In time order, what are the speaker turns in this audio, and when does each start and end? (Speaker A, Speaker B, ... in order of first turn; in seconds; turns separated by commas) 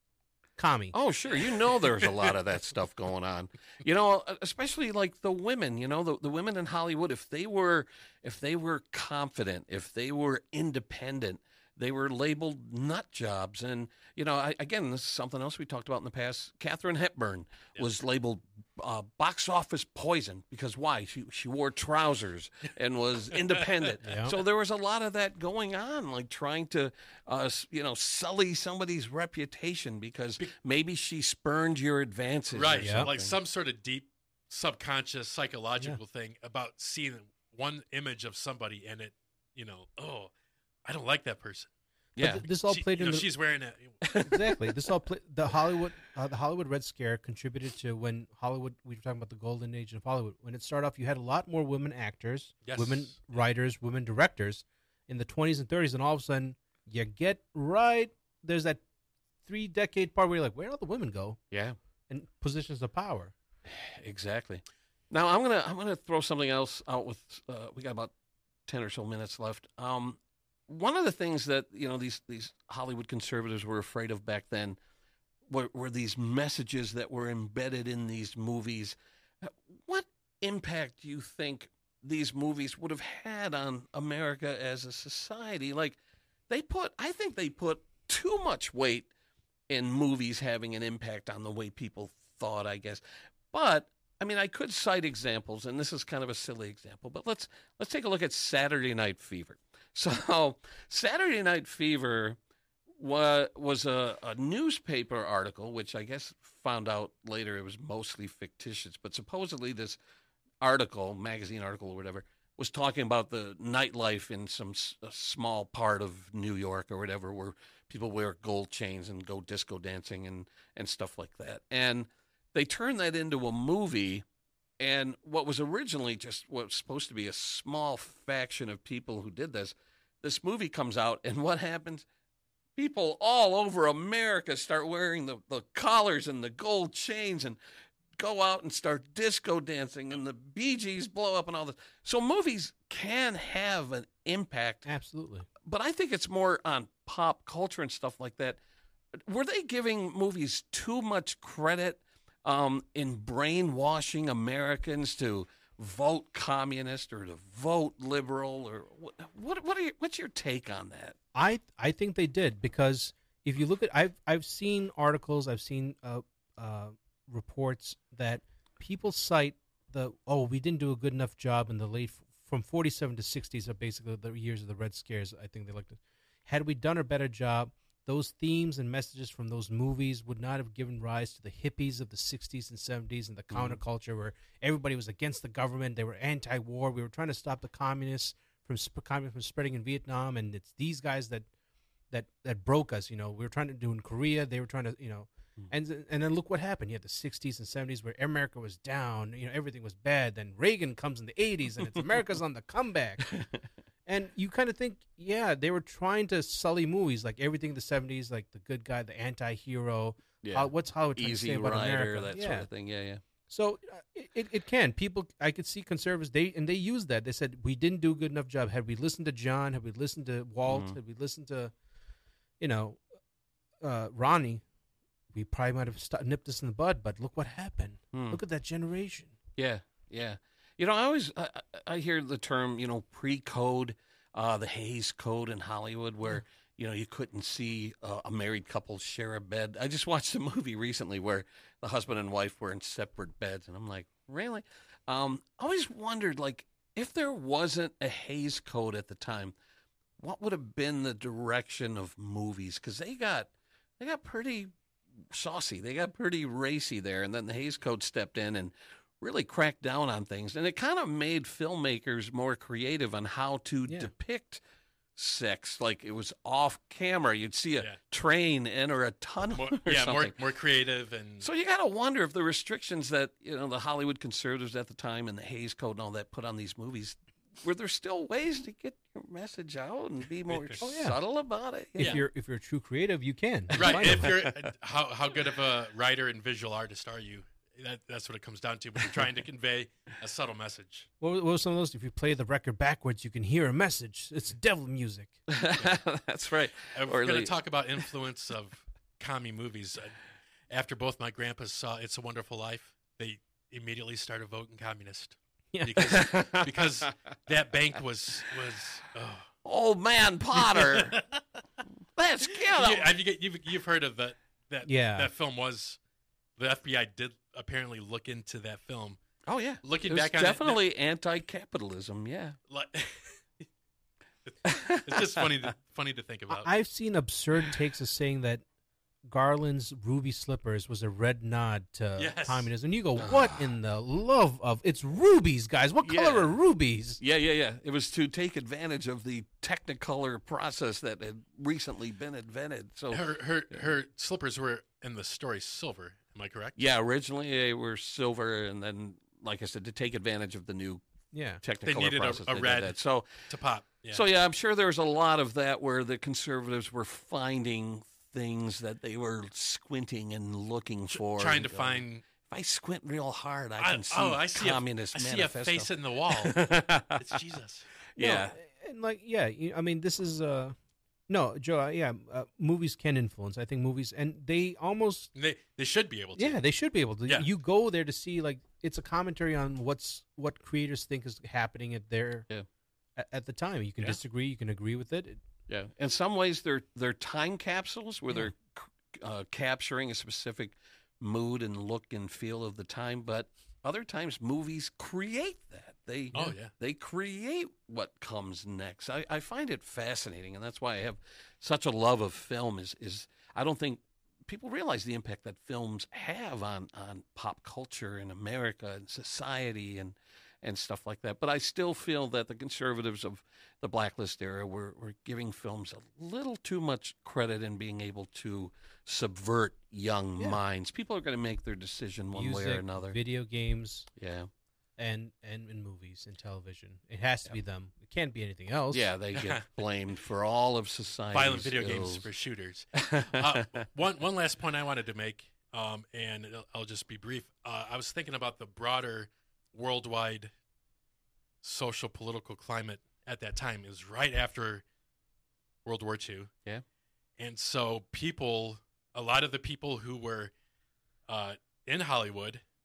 Speaker A: 0.6-0.9, Speaker B: 0.9-33.4, Speaker C: 1.9-2.3, Speaker C: 23.3-24.2, Speaker A: 24.0-24.4, Speaker C: 32.5-40.3, Speaker A: 32.8-33.1, Speaker C: 40.8-41.7, Speaker B: 42.1-42.4, Speaker A: 42.2-43.3, Speaker C: 42.7-44.1, Speaker B: 44.0-44.5, Speaker A: 44.2-58.8, Speaker C: 52.6-53.4, Speaker A: 59.5-61.4, Speaker B: 61.5-61.8, Speaker A: 62.1-63.3, Speaker B: 63.7-68.1, Speaker B: 68.7-74.8, Speaker B: 75.5-86.0, Speaker B: 86.5-89.1, Speaker B: 89.7-102.4, Speaker B: 102.9-110.0, Speaker B: 110.6-124.2, Speaker B: 124.8-132.1, Speaker B: 132.8-137.6, Speaker B: 138.2-144.9, Speaker A: 144.8-145.5, Speaker B: 145.6-148.6, Speaker B: 149.1-161.2, Speaker A: 161.3-191.5, Speaker B: 183.5-183.8, Speaker A: 192.1-203.3, Speaker B: 203.3-203.6, Speaker A: 204.1-212.7, Speaker B: 210.4-213.2, Speaker A: 213.5-221.7, Speaker B: 220.7-221.0, Speaker A: 222.6-223.0, Speaker A: 223.8-224.6, Speaker A: 225.3-229.3, Speaker B: 228.1-228.4, Speaker B: 229.6-249.5, Speaker B: 250.2-264.6, Speaker B: 265.1-270.3, Speaker C: 269.5-271.5, Speaker B: 271.4-282.2, Speaker C: 280.5-280.8, Speaker A: 280.8-281.1, Speaker A: 281.9-284.3, Speaker C: 282.0-282.2, Speaker B: 283.7-284.7, Speaker C: 283.7-291.1, Speaker A: 291.2-295.4, Speaker B: 295.5-297.5, Speaker C: 296.9-300.1, Speaker C: 300.7-309.5, Speaker A: 305.7-306.1, Speaker B: 306.0-306.9, Speaker B: 309.6-311.2, Speaker C: 310.5-311.4, Speaker B: 312.1-313.1, Speaker C: 312.6-316.0, Speaker A: 314.8-315.3, Speaker C: 316.6-319.2, Speaker B: 319.4-322.6, Speaker C: 319.8-320.8, Speaker C: 322.7-323.6, Speaker C: 324.4-326.7, Speaker B: 324.6-325.5, Speaker A: 326.5-328.6, Speaker A: 329.2-337.2, Speaker C: 332.2-332.7, Speaker B: 333.2-333.6, Speaker B: 336.0-336.6, Speaker B: 337.2-343.8, Speaker C: 343.1-346.8, Speaker B: 346.8-351.0, Speaker A: 351.3-351.6, Speaker B: 351.6-353.5, Speaker C: 351.8-354.2, Speaker B: 354.1-367.4, Speaker C: 361.1-362.2, Speaker C: 363.8-367.9, Speaker B: 368.1-368.6, Speaker A: 368.2-370.8, Speaker A: 371.3-375.3, Speaker C: 375.3-376.6, Speaker A: 376.4-382.5, Speaker A: 383.1-385.4, Speaker B: 385.7-423.2, Speaker C: 396.3-396.7, Speaker A: 422.3-424.1, Speaker B: 424.2-424.5, Speaker A: 425.0-429.1, Speaker B: 428.9-432.3, Speaker C: 429.3-429.6, Speaker C: 431.3-440.5, Speaker B: 432.9-433.8, Speaker C: 441.6-444.8, Speaker C: 445.8-446.5, Speaker C: 447.4-450.5, Speaker C: 451.3-452.6